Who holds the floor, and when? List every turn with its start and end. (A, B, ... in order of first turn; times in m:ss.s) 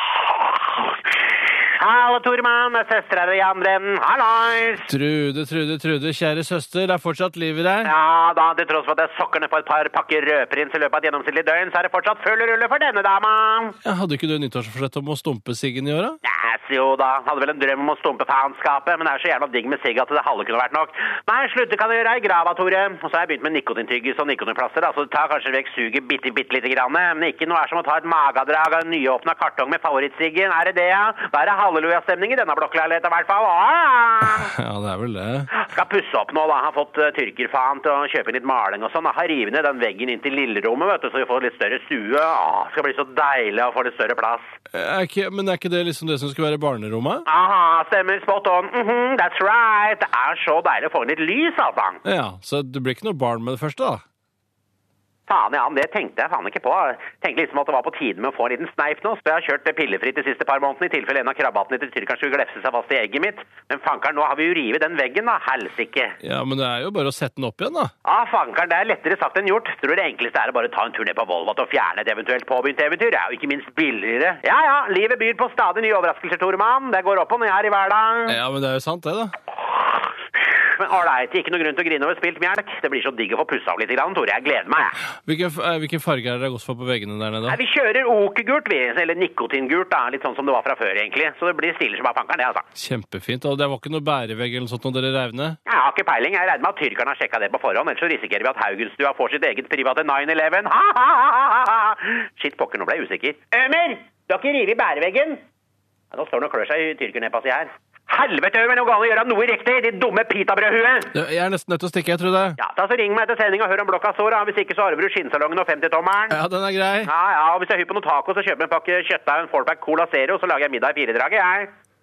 0:01.8-0:04.9 A
0:04.9-0:07.9 B
0:07.8-0:13.8 A
0:13.8-0:16.2 B
0:16.2-0:34.5 A
0:34.3-0:35.5 B
0:35.5-0:44.6 A
0:44.7-0:47.2 B
0:47.3-0:52.0 A
0:52.0-0:54.0 B
0:55.3-1:06.2 A
1:06.2-1:07.9 B
1:08.0-1:18.4 A
1:18.3-1:19.3 B
1:20.4-1:25.0 A
1:25.3-1:27.6 B
1:27.5-1:32.7 A
1:32.8-1:35.6 B
1:35.7-1:45.4 A
1:46.1-1:51.1 A
1:51.1-1:52.6 B
1:52.6-1:56.4 A
1:56.3-1:57.1 B
1:57.0-2:01.7 A